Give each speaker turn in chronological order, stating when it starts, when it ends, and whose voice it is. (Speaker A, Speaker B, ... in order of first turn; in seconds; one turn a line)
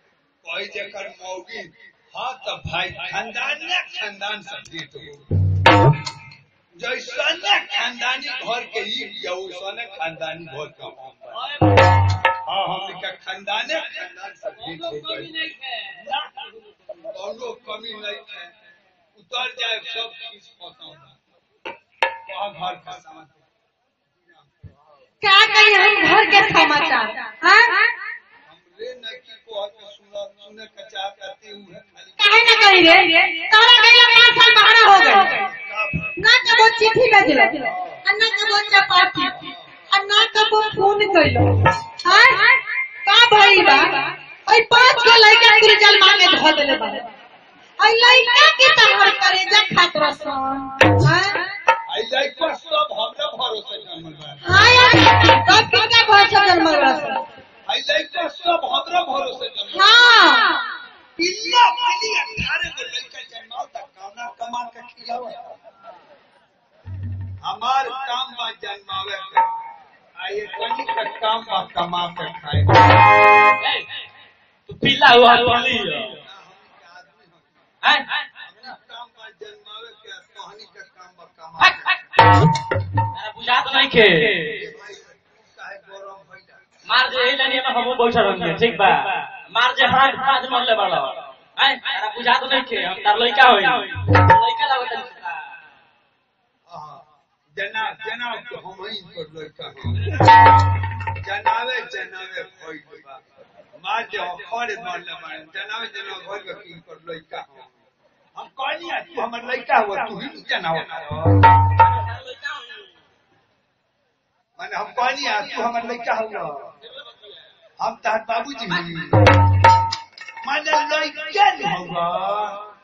Speaker A: 0.4-5.2
Speaker A: 6.8-11.4
Speaker A: 12.3-15.4
Speaker A: 17.1-18.5
Speaker A: 19.1-21.2
Speaker A: 22.2-23.4
Speaker B: 25.2-27.9
Speaker A: 28.4-32.9
Speaker B: 32.2-35.4
Speaker A: 35.3-36.1
Speaker B: 36.2-39.4
Speaker A: 37.7-38.0
Speaker A: 39.3-39.7
Speaker B: 39.9-42.5
Speaker B: 43.0-47.1
Speaker B: 47.8-51.4
Speaker A: 51.9-54.6
Speaker B: 54.4-57.2
Speaker A: 57.7-60.1
Speaker B: 59.7-60.6
Speaker A: 61.1-65.5
Speaker A: 67.4-69.5
Speaker A: 70.2-73.0
Speaker C: 74.7-76.1
Speaker A: 76.2-77.5
Speaker A: 78.4-81.9
Speaker C: 81.6-81.9
Speaker C: 83.1-84.5
Speaker A: 84.4-86.6
Speaker C: 86.8-95.3
Speaker A: 96.7-100.2
Speaker A: 101.1-103.2
Speaker A: 103.7-107.7
Speaker A: 108.3-111.4
Speaker A: 114.6-116.7
Speaker A: 117.8-119.4
Speaker A: 120.4-122.6